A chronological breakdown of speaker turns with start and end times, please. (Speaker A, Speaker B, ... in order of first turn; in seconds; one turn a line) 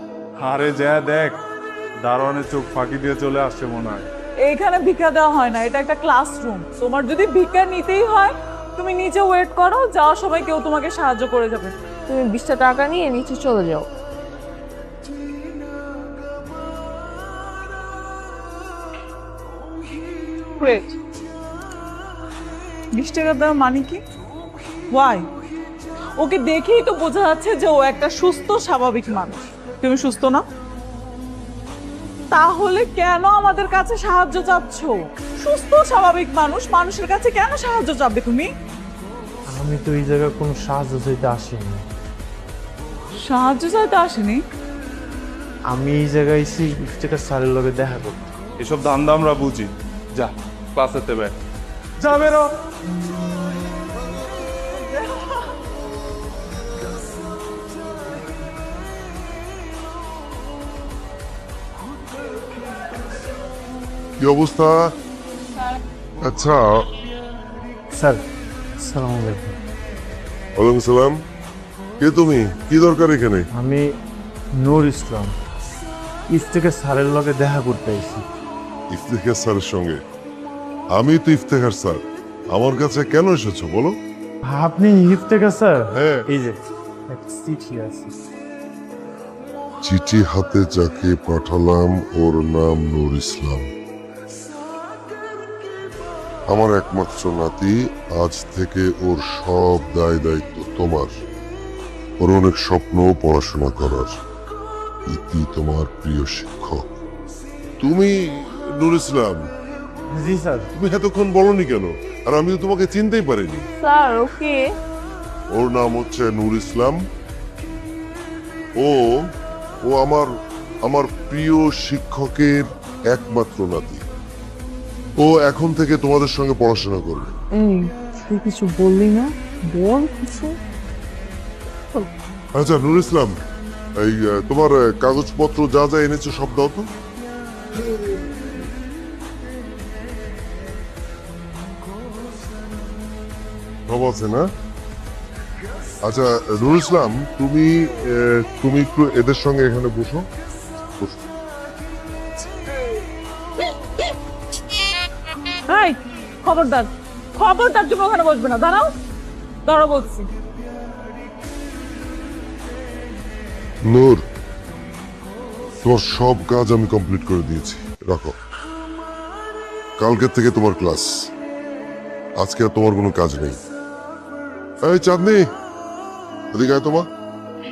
Speaker A: 0.4-1.4
Speaker A: 2.0-4.1
Speaker B: 4.5-11.7
Speaker C: 12.1-13.9
Speaker B: 20.6-20.9
Speaker B: 22.9-24.0
Speaker B: 24.9-25.2
Speaker B: 26.2-30.4
Speaker B: 32.3-38.5
Speaker D: 39.5-41.8
Speaker B: 43.2-44.4
Speaker D: 45.7-48.3
Speaker A: 48.6-51.3
Speaker A: 52.0-52.5
Speaker B: 54.8-55.4
Speaker E: 64.2-64.9
Speaker E: 66.2-66.8
Speaker D: 67.9-68.2
Speaker D: 68.8-69.6
Speaker E: 70.6-71.2
Speaker E: 72.0-73.5
Speaker D: 73.5-73.8
Speaker D: 74.6-75.3
Speaker D: 76.3-78.2
Speaker E: 78.9-80.0
Speaker E: 80.9-82.0
Speaker E: 82.5-83.9
Speaker D: 84.4-88.1
Speaker E: 85.9-86.2
Speaker E: 89.8-93.7
Speaker E: 96.5-101.1
Speaker E: 102.2-104.2
Speaker E: 105.1-106.8
Speaker E: 107.8-109.5
Speaker D: 110.1-110.7
Speaker E: 110.7-113.7
Speaker C: 113.8-114.7
Speaker E: 115.5-117.0
Speaker E: 118.8-119.2
Speaker E: 119.8-120.2
Speaker E: 120.8-124.0
Speaker E: 125.2-127.3
Speaker C: 127.5-130.6
Speaker E: 132.5-133.3
Speaker E: 134.0-136.9
Speaker E: 143.9-144.5
Speaker E: 146.0-150.2
Speaker B: 155.7-158.9
Speaker B: 159.6-160.3
Speaker E: 163.8-164.2
Speaker E: 165.8-168.3
Speaker E: 170.0-171.1
Speaker E: 172.4-173.6
Speaker E: 174.8-175.4
Speaker E: 176.5-177.1